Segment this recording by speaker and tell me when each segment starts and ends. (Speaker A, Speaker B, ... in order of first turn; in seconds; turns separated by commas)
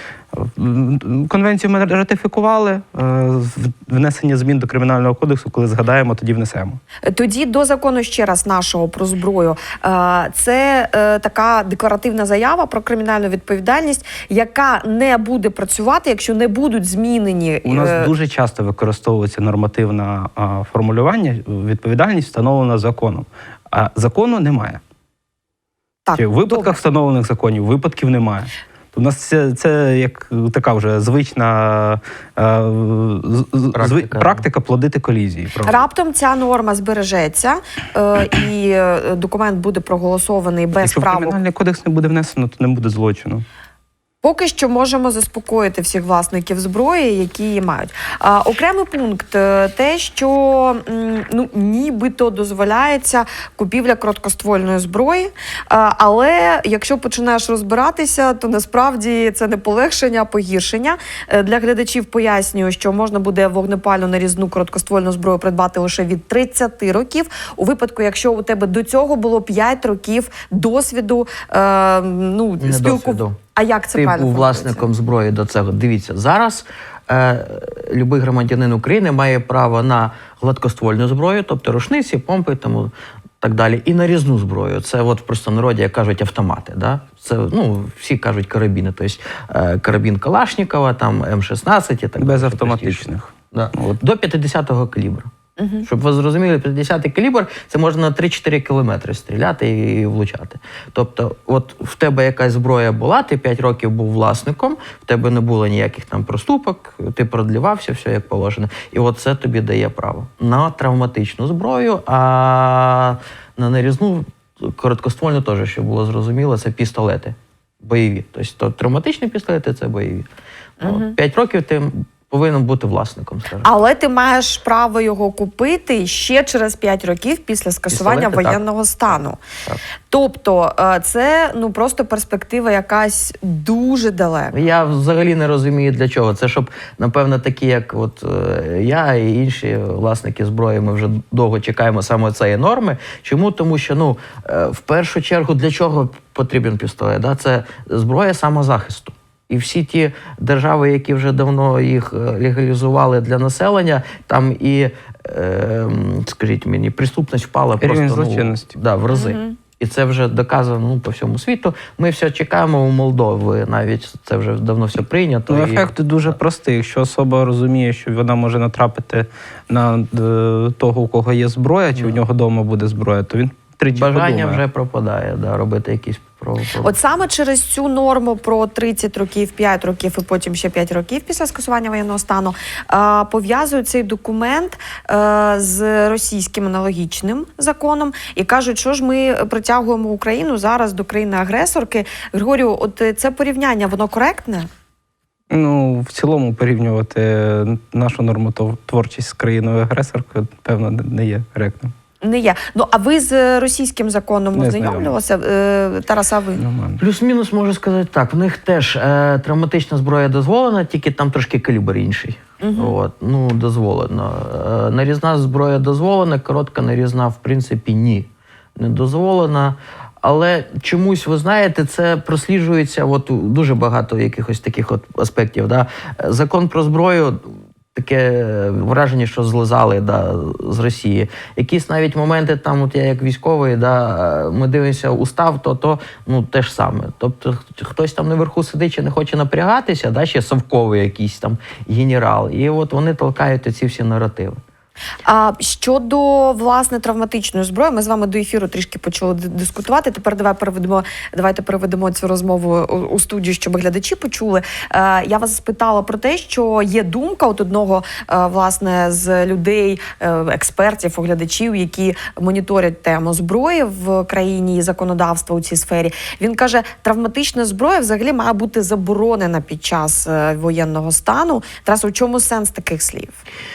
Speaker A: 0.3-6.8, Speaker B: 7.1-18.1, Speaker A: 17.6-24.8, Speaker B: 26.1-26.8, Speaker A: 26.1-35.8, Speaker C: 33.7-34.4, Speaker B: 35.6-41.3, Speaker A: 40.8-43.4, Speaker B: 44.2-74.8, Speaker C: 72.6-73.4, Speaker C: 73.9-95.3, Speaker A: 92.2-94.0, Speaker B: 95.6-95.9, Speaker C: 95.8-120.3, Speaker B: 120.8-121.1, Speaker C: 120.8-123.7, Speaker B: 123.6-129.4, Speaker C: 127.9-128.6, Speaker B: 130.1-134.6, Speaker C: 134.5-165.9, Speaker A: 157.8-158.7, Speaker B: 159.1-159.6, Speaker A: 165.5-174.6, Speaker C: 171.9-172.2, Speaker C: 173.9-177.0, Speaker B: 176.8-194.7, Speaker A: 195.5-201.9, Speaker B: 202.2-206.6, Speaker A: 204.6-205.1, Speaker A: 206.6-207.0, Speaker C: 207.0-244.6, Speaker B: 212.6-213.0, Speaker B: 245.2-273.4